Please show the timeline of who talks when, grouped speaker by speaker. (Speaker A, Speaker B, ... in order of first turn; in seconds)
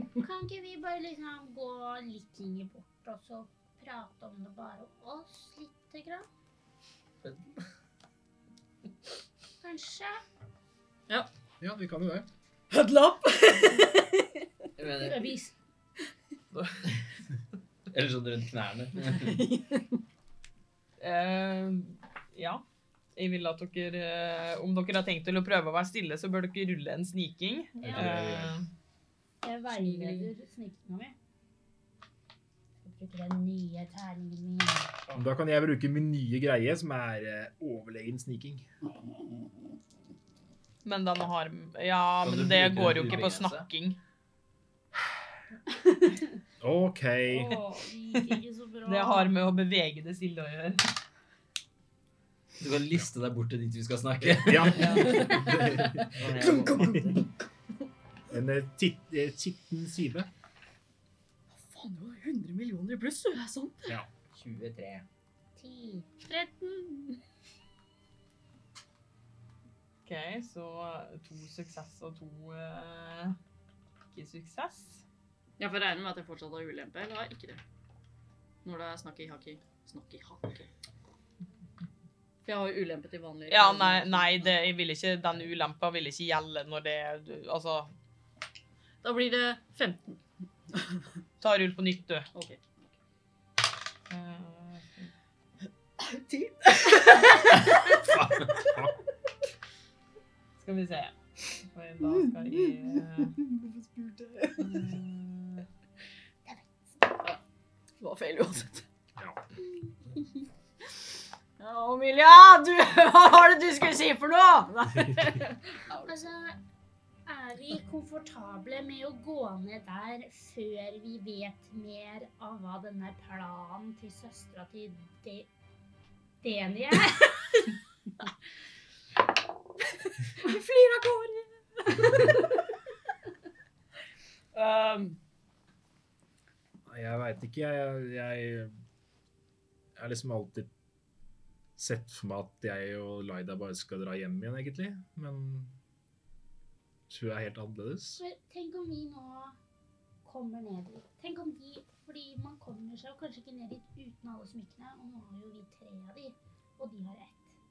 Speaker A: 0.2-6.3, 9.6-10.2, 14.9-15.5, 29.4-31.1, 32.8-34.9, 47.3-49.3, 65.5-66.1, 106.5-106.8, 116.0-116.6, 117.2-125.5, 126.4-127.4, 148.2-149.6, 150.2-157.6
Speaker B: 7.2-7.7, 14.8-15.3, 17.9-19.4, 27.9-28.3, 42.2-43.7, 52.6-57.2, 64.3-65.1
Speaker C: 11.6-12.3, 27.8-28.6, 35.1-38.6, 46.6-47.6, 54.2-57.1, 58.3-60.3, 97.9-98.9, 136.9-138.7, 140.0-140.7, 141.8-145.7, 147.1-148.2
Speaker D: 12.7-14.3, 19.1-20.0, 29.7-30.2, 54.9-57.3, 61.5-64.0, 66.2-67.2, 75.6-77.6, 78.6-80.7, 82.4-84.5, 89.0-91.1, 92.3-92.9, 96.0-98.0, 102.5-105.6, 107.1-107.4, 108.0-108.8, 111.6-116.1, 130.2-132.6, 134.5-135.2
Speaker E: 16.5-16.8, 21.0-22.6, 23.1-28.7, 40.8-44.0, 48.1-50.9, 54.7-55.1, 70.0-73.4, 74.1-75.0, 83.5-87.9, 91.4-92.3, 94.1-95.1, 100.5-103.3